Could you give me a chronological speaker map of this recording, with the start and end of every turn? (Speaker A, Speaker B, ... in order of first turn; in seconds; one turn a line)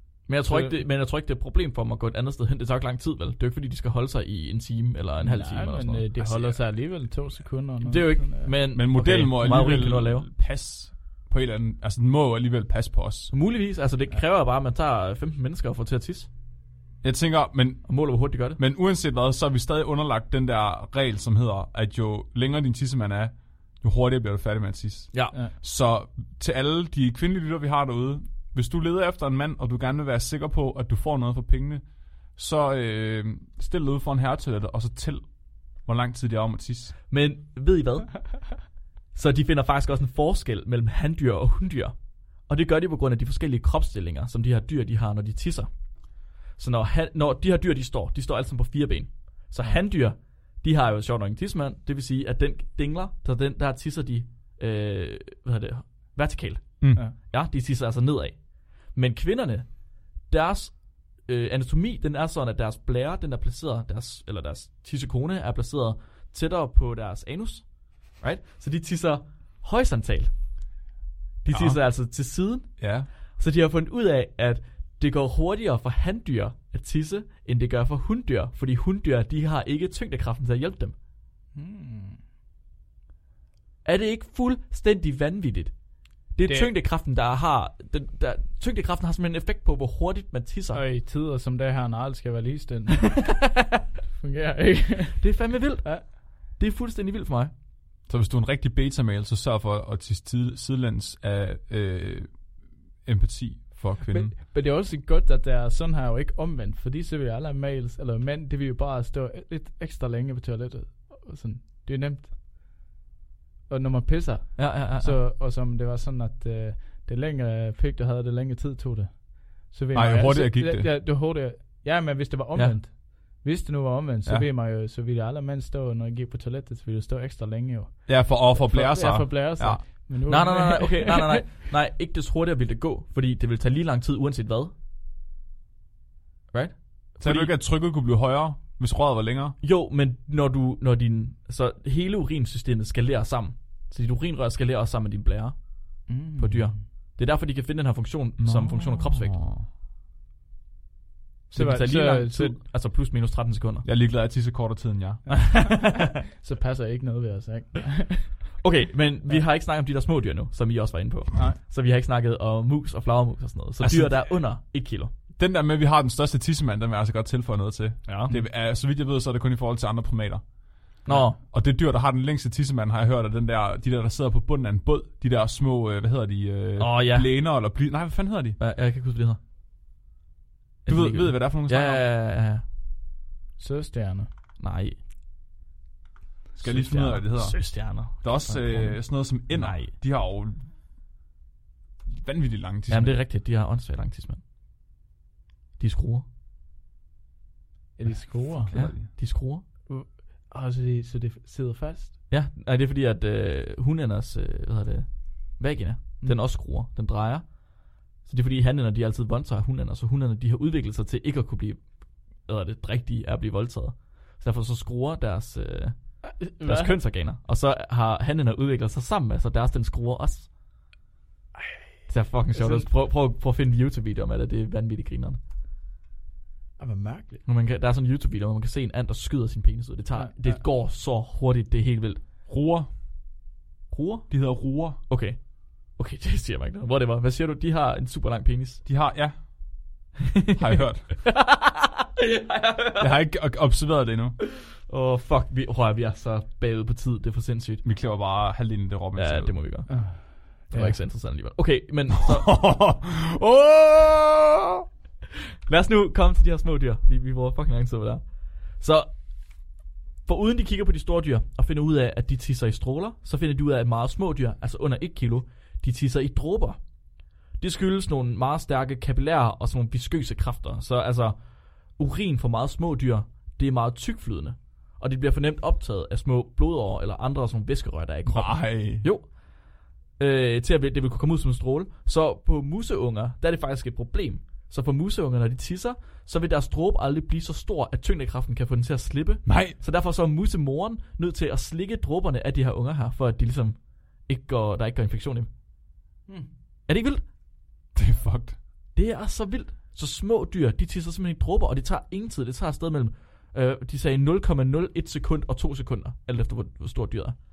Speaker A: 0.3-6.1
Speaker B: 0.5-0.8
Speaker B: 5.2-8.5
Speaker C: 6.2-6.6
Speaker A: 7.8-10.3
Speaker C: 8.7-13.3
Speaker A: 13.3-16.3
Speaker C: 17.0-17.9
Speaker A: 17.9-18.6
Speaker C: 18.6-31.8
Speaker C: 32.4-35.2
Speaker C: 35.8-36.9
Speaker A: 37.1-38.3
Speaker A: 39.1-41.9
Speaker A: 42.5-45.7
Speaker A: 46.6-67.7
Speaker A: 68.2-70.3
Speaker A: 71.4-72.8
Speaker C: 71.5-71.8
Speaker C: 72.8-73.1
Speaker A: 73.4-80.9
Speaker B: 81.5-82.2
Speaker A: 83.8-85.7
Speaker A: 86.3-90.8
Speaker B: 86.4-86.7
Speaker B: 90.7-93.5
Speaker A: 93.0-93.7
Speaker B: 94.1-96.1
Speaker A: 95.2-97.5
Speaker C: 98.1-102.4
Speaker C: 103.0-104.3
Speaker B: 104.1-112.3
Speaker B: 113.7-131.4
Speaker A: 114.5-115.2
Speaker C: 119.9-120.9
Speaker C: 128.1-129.8
Speaker A: 130.3-134.7
Speaker A: 136.5-137.5
Speaker C: 137.2-139.6
Speaker A: 139.6-145.6
Speaker B: 146.1-146.8
Speaker A: 146.4-149.4
Speaker C: 148.4-149.7
Speaker A: 151.5-153.8
Speaker B: 151.5-152.6
Speaker C: 153.8-155.2
Speaker B: 155.3-158.6
Speaker A: 155.3-156.2
Speaker A: 158.6-165.1
Speaker C: 163.8-164.3
Speaker C: 165.4-170.4
Speaker A: 168.1-168.3
Speaker A: 171.1-171.4
Speaker C: 171.1-178.6
Speaker A: 176.8-177.3
Speaker A: 178.6-179.4
Speaker A: 180.8-182.6
Speaker C: 180.9-182.0
Speaker B: 183.6-184.3
Speaker A: 184.6-185.0
Speaker C: 186.6-187.6
Speaker A: 186.6-188.8
Speaker C: 188.1-190.7
Speaker B: 188.5-188.9
Speaker A: 189.5-189.9
Speaker C: 192.1-193.2
Speaker A: 192.9-194.4
Speaker A: 195.8-196.2
Speaker B: 198.0-198.7
Speaker C: 198.6-199.1
Speaker A: 198.7-199.6
Speaker B: 199.9-202.2
Speaker A: 202.3-220.5
Speaker B: 216.2-216.9
Speaker A: 222.1-225.4
Speaker B: 222.5-222.9
Speaker B: 226.8-227.4
Speaker A: 227.4-232.2
Speaker B: 230.1-230.6
Speaker C: 232.5-232.9
Speaker A: 233.9-238.8
Speaker C: 234.3-235.0
Speaker C: 238.8-239.3
Speaker C: 240.6-241.1
Speaker A: 241.2-243.1
Speaker C: 243.0-244.4
Speaker A: 244.8-247.8
Speaker C: 247.8-249.5
Speaker A: 249.2-252.6
Speaker B: 249.9-251.0
Speaker C: 252.2-254.8
Speaker A: 255.7-259.1
Speaker A: 260.2-266.8
Speaker A: 267.6-271.4
Speaker A: 271.9-279.4
Speaker C: 278.3-279.0
Speaker A: 280.2-295.5
Speaker C: 289.4-289.8
Speaker A: 296.9-297.2
Speaker C: 297.9-298.6
Speaker A: 298.9-307.4